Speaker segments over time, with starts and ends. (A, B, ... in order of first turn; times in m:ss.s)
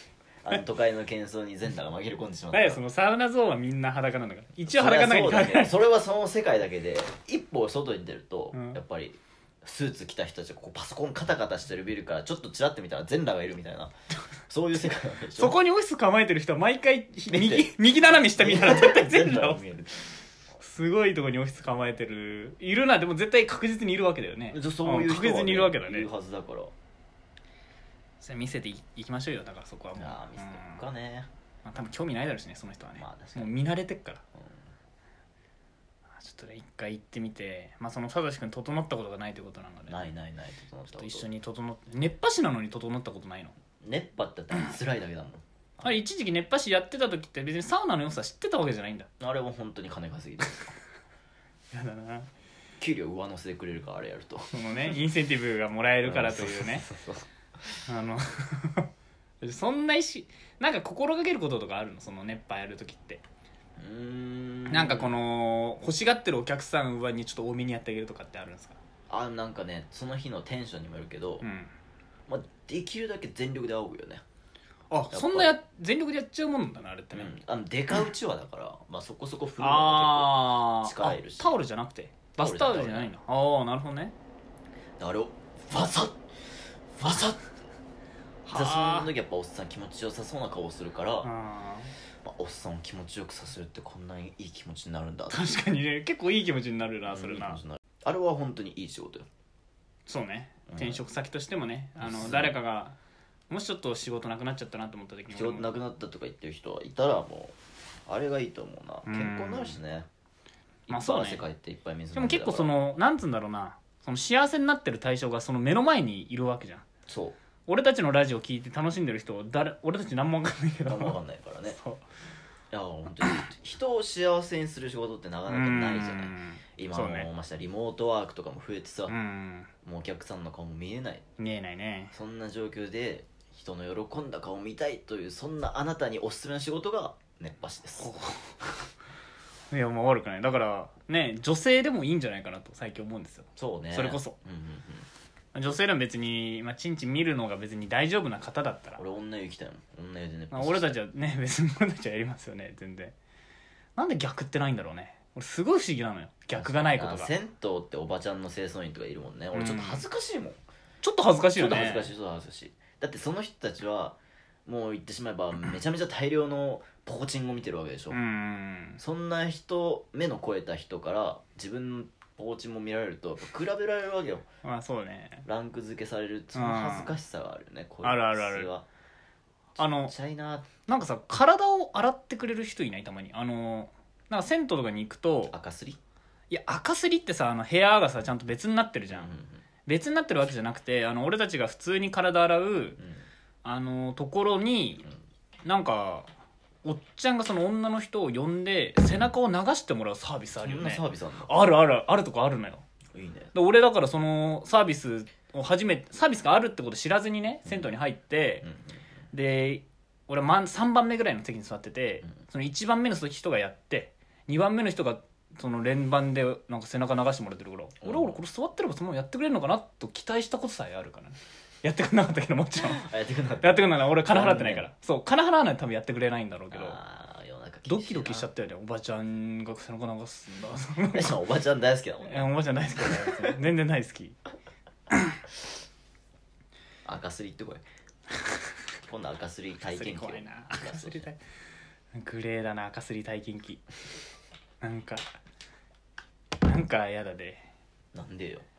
0:00.4-0:02.8 A
0:02.5-0:05.8 B
0:04.7-0:13.9 A
0:08.5-0:08.8 B
0:14.5-0:15.6 A
0:15.4-0:19.8 B
0:17.3-0:20.1 A
0:20.6-0:26.1 B
0:24.5-0:26.7 A
0:28.2-0:30.8 B
0:30.0-0:31.3 A
0:31.6-0:34.2 B
0:33.0-0:33.6 A
0:34.4-0:34.6 A
0:36.2-0:40.0 B
0:39.9-0:41.2 A
0:40.9-0:43.6 B
0:43.8-0:46.0 A
0:45.8-0:49.1 B
0:49.2-0:50.7 A
0:51.7-0:52.3 B
0:52.8-0:54.9 A
0:54.5-0:56.9 B
0:56.0-0:57.8 A
0:57.9-0:58.9 B
0:59.4-1:03.2 B
1:03.8-1:05.1 A
1:04.7-1:08.8 B
1:09.1-1:11.4 A
1:11.4-1:11.7 B
1:12.3-1:14.2 A
1:14.9-1:17.4 B
1:15.1-1:15.6 A
1:17.1-1:21.5 A
1:19.6-1:24.1 B
1:22.4-1:23.1 A
1:25.0-1:27.4 A
1:28.5-1:29.1 B
1:28.5-1:31.3 A
1:31.2-1:31.9 B
1:32.2-1:35.5 A
1:35.3-1:37.6 B
1:37.1-1:39.3 A
1:40.1-1:43.0 B
1:40.7-1:41.0 A
1:42.0-1:42.6 A
1:43.5-1:45.7 B
1:45.3-1:50.1 A
1:49.0-1:49.8 B
1:50.9-1:51.4 B
1:50.9-1:52.7 A
1:52.1-1:56.9 B
1:57.1-1:57.4 A
1:57.7-2:02.0 B
2:00.9-2:01.8 A
2:02.7-2:09.1 A
2:05.5-2:07.3 B
2:09.1-2:09.7 B
2:09.8-2:11.2 A
2:11.4-2:12.1 B
2:12.1-2:18.1 A
2:18.0-2:18.6 B
2:19.7-2:24.4 B
2:23.6-2:25.1 A
2:25.5-2:29.0 B
2:29.0-2:31.0 A
2:30.5-2:33.2 B
2:34.0-2:37.3 B
2:36.5-2:40.6 A
2:39.5-2:40.0 B
2:41.0-2:42.1 B
2:41.5-2:48.2 A
2:48.1-2:49.0 B
2:49.0-2:54.4 A
2:54.6-2:55.5 B
2:55.5-2:58.8 A
2:56.5-2:57.1 B
2:58.0-2:58.7 B
2:59.8-3:00.7 A
2:59.8-3:00.1 B
3:00.9-3:05.5 B
3:05.5-3:06.0 A
3:06.5-3:09.3 B
3:09.1-3:09.6 A
3:09.9-3:13.0 B
3:13.0-3:13.2 A
3:13.6-3:15.0 B
3:15.6-3:16.3 B
3:16.8-3:22.8 B
3:20.6-3:21.5 A
3:23.1-3:23.5 A
3:23.5-3:28.7 B
3:28.6-3:29.0 A
3:29.3-3:43.1 B
3:38.0-3:38.4 A
3:42.8-3:44.9 A
3:43.6-3:47.0 B
3:46.7-3:48.5 A
3:47.9-3:51.3 B
3:51.1-3:53.5 A
3:52.2-3:54.4 B
3:55.1-3:55.4 B
3:57.0-3:57.8 A
3:59.0-4:01.3 A
3:59.8-4:01.4 B
4:02.1-4:03.8 B
4:04.8-4:05.2 B
4:06.6-4:07.6 B
4:08.1-4:08.7 A